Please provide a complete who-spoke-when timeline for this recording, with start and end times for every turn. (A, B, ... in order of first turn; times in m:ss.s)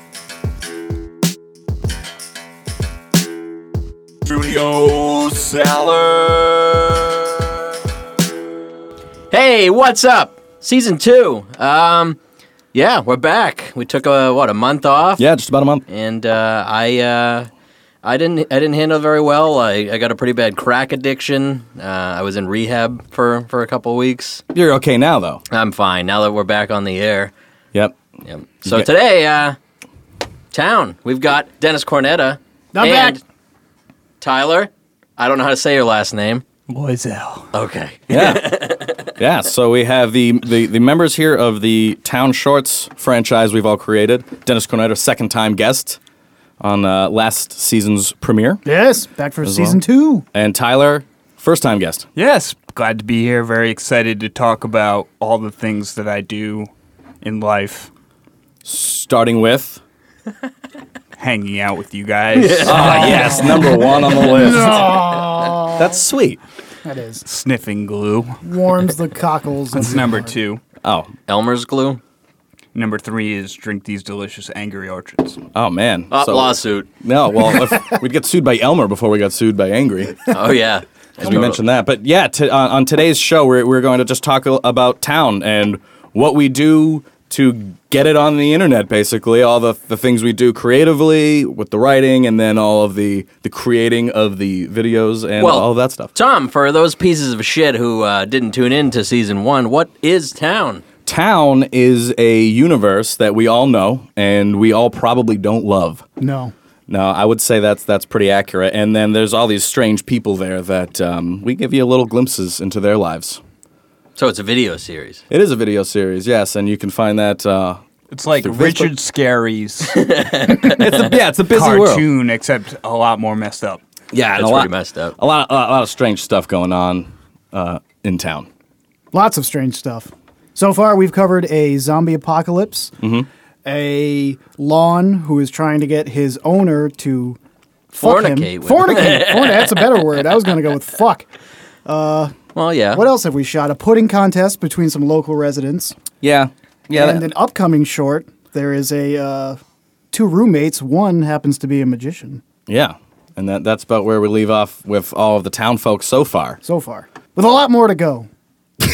0:04.2-0:07.5 A
0:09.3-0:12.2 B
0:12.7-0:15.3 B
0:15.2-0:15.8 A
0:15.9-0:17.5 B
0:18.0-0:24.4 B
0:24.5-0:25.4 A
0:25.5-0:27.3 B
0:28.2-0:29.6 B
0:30.5-0:33.2 B
0:32.7-0:33.2 C
0:34.2-0:36.4 B
0:36.7-0:37.5 D
0:37.5-0:39.1 B
0:38.1-0:38.5 A
0:39.2-0:46.0 A
0:46.6-0:48.6 A
0:48.6-0:50.2 C
0:49.4-0:52.1 A
0:52.2-0:56.7 D
0:57.2-0:57.9 D
0:58.6-0:59.8 A
1:01.2-1:03.5 D
1:02.3-1:03.8 B
1:02.6-1:05.1 A
1:02.8-1:06.0 C
1:05.7-1:06.4 A
1:06.8-1:07.2 C
1:07.2-1:08.4 D
1:08.4-1:10.3 C
1:09.7-1:10.6 D
1:10.8-1:11.1 A
1:11.3-1:12.0 B
1:12.7-1:15.4 D
1:15.5-1:20.4 A
1:16.1-1:16.9 B
1:20.3-1:21.6 B
1:21.2-1:36.1 A
1:35.4-1:40.8 B
1:41.0-1:46.0 A
1:46.2-1:46.5 C
1:46.9-1:53.4 A
1:54.2-1:55.2 B
1:55.3-1:57.8 A
1:58.1-2:00.1 D
1:58.4-1:58.9 A
1:59.9-2:01.0 B
2:00.6-2:02.1 A
2:01.4-2:03.8 D
2:04.1-2:08.5 A
2:04.4-2:05.2 B
2:09.1-2:13.0 C
2:13.0-2:13.3 A
2:13.6-2:17.4 C
2:17.9-2:20.0 B
2:18.0-2:21.3 C
2:21.8-2:22.3 C
2:22.5-2:23.1 B
2:22.9-2:26.0 C
2:26.2-2:27.3 A
2:26.9-2:29.6 C
2:30.1-2:32.4 C
2:32.7-2:36.6 A
2:36.6-2:38.3 C